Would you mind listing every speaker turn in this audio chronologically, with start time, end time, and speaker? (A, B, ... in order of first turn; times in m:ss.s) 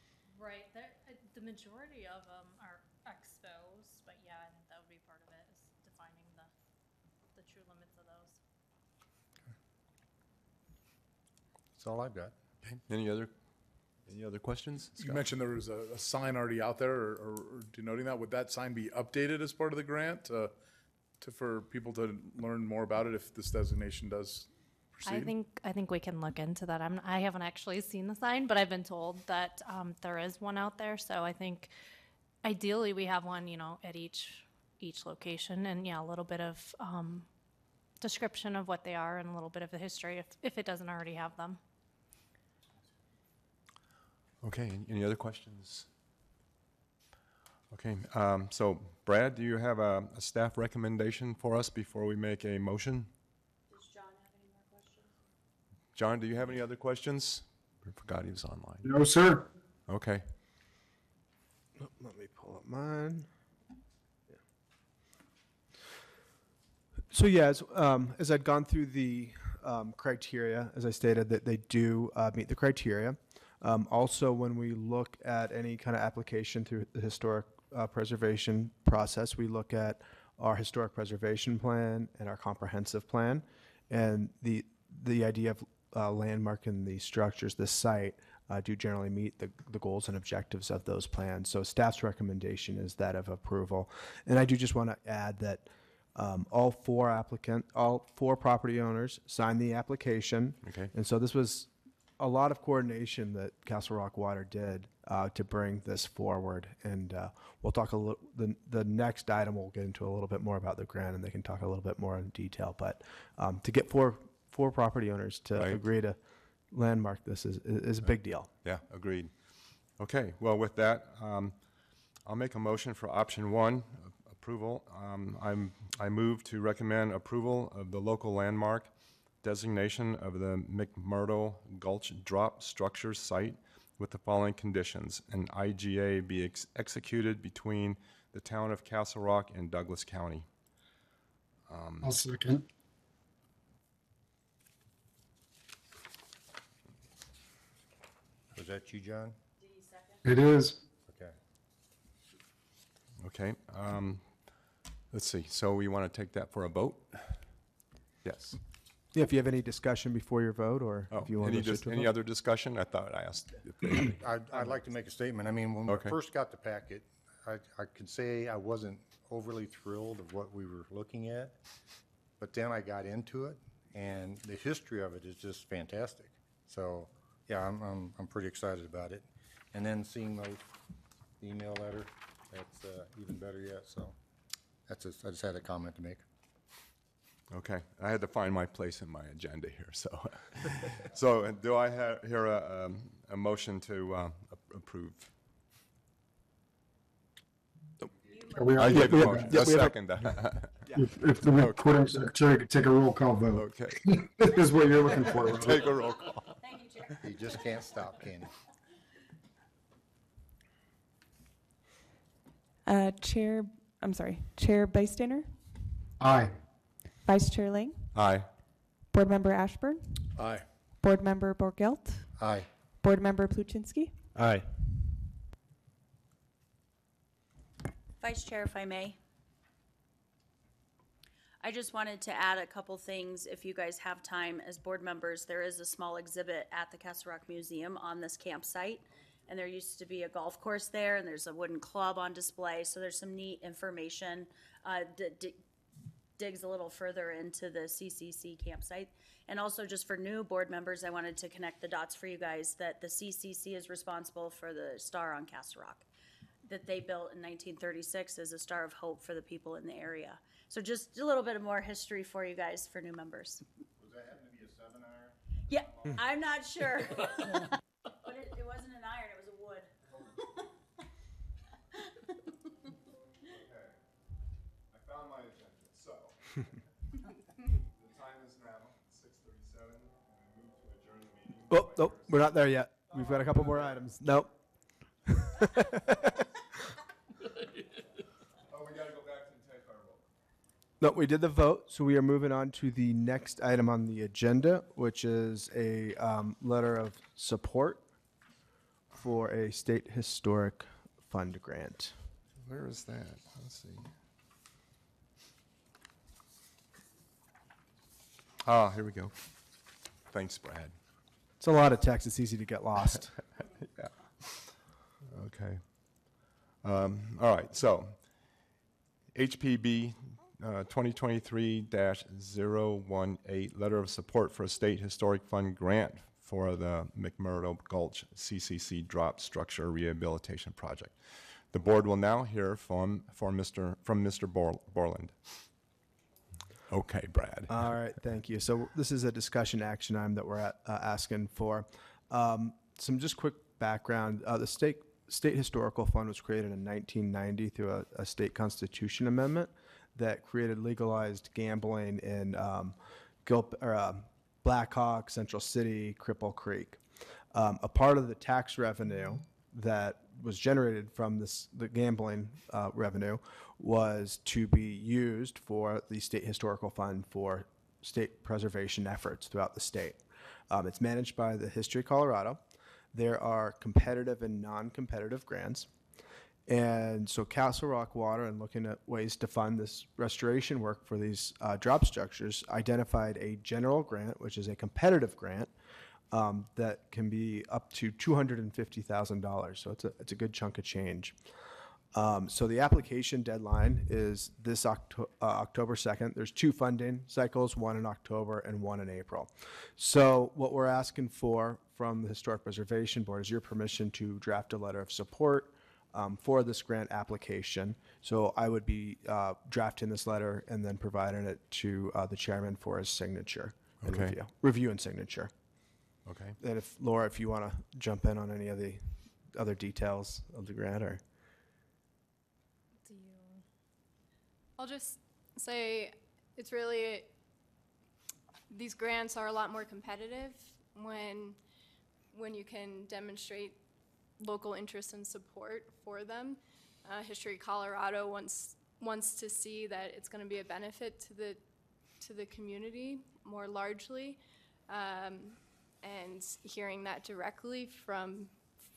0:00.3-0:06.5 A
0:07.3-0:08.4 A
0:11.8-0:12.3 B
0:12.6-0:13.3 C
0:14.0-0:15.2 C
0:15.0-0:20.5 D
0:21.2-0:25.3 D
0:25.0-0:31.7 A
0:32.4-0:37.3 A
0:38.0-0:41.6 A
0:44.4-0:45.9 C
0:47.7-0:53.1 C
0:53.7-0:55.1 E
0:55.9-0:58.9 C
0:58.8-0:59.5 F
0:59.9-1:00.2 C
1:01.8-1:03.3 G
1:07.1-1:56.2 G
1:40.6-1:40.9 C
1:55.6-1:55.8 C
1:56.7-1:58.5 G
1:58.0-2:01.7 C
2:02.2-2:20.4 C
2:21.7-2:22.2 C
2:22.0-2:22.6 F
2:28.5-2:29.4 B
2:29.6-2:30.2 E
2:30.2-2:30.8 F
2:31.0-2:31.4 B
2:33.2-2:37.6 C
2:38.2-2:38.6 C
2:39.1-2:42.1 G
2:41.1-2:44.7 C
2:44.2-2:51.6 B
2:45.8-2:46.2 C
2:52.4-3:00.7 B
3:01.4-3:04.2 B
3:04.9-3:06.2 B
3:07.5-3:15.3 C
3:18.3-3:18.9 E
3:18.5-3:19.5 F
3:18.8-3:20.9 C
3:18.9-3:20.1 G
3:20.9-3:25.9 F
3:21.4-3:22.2 C
3:23.5-3:24.0 C
3:25.2-3:26.6 C
3:26.6-3:27.3 E
3:27.2-3:28.5 B
3:32.8-3:35.5 H
3:36.2-3:36.5 F
3:37.2-3:38.1 H
3:38.1-3:38.5 C
3:39.1-3:40.4 H
3:40.4-3:40.6 D
3:41.0-3:42.3 H
3:42.4-3:42.7 B
3:43.0-3:44.2 H
3:48.2-3:49.2 E
3:51.6-4:05.6 E
4:06.4-4:16.0 E
4:16.6-4:23.6 E
4:24.0-4:25.3 B
4:25.7-4:27.7 E
4:28.2-4:29.9 E
4:33.4-4:34.0 C
4:34.9-4:36.7 C
4:37.8-4:42.4 C
4:41.7-4:44.5 G
4:43.1-4:44.0 C
4:45.2-4:46.4 G
4:48.7-4:50.2 C
4:51.0-4:58.0 G
4:59.1-5:02.1 G
5:02.6-5:04.1 C
5:08.6-5:09.6 C
5:10.3-5:10.9 C
5:11.6-5:13.4 G
5:13.8-5:18.6 C
5:19.3-5:35.7 C
5:36.9-5:37.9 C
5:37.7-5:57.0 G
5:57.5-6:15.9 G
6:16.7-6:25.7 G
6:26.3-6:31.4 G
6:32.1-6:55.5 G
6:54.0-6:54.4 C
6:56.2-6:56.6 C
6:56.6-7:01.2 G
7:03.0-7:03.6 A
7:04.8-7:07.3 I
7:08.7-7:11.6 I
7:12.3-7:13.8 I
7:14.4-7:21.6 I
7:22.2-7:28.6 I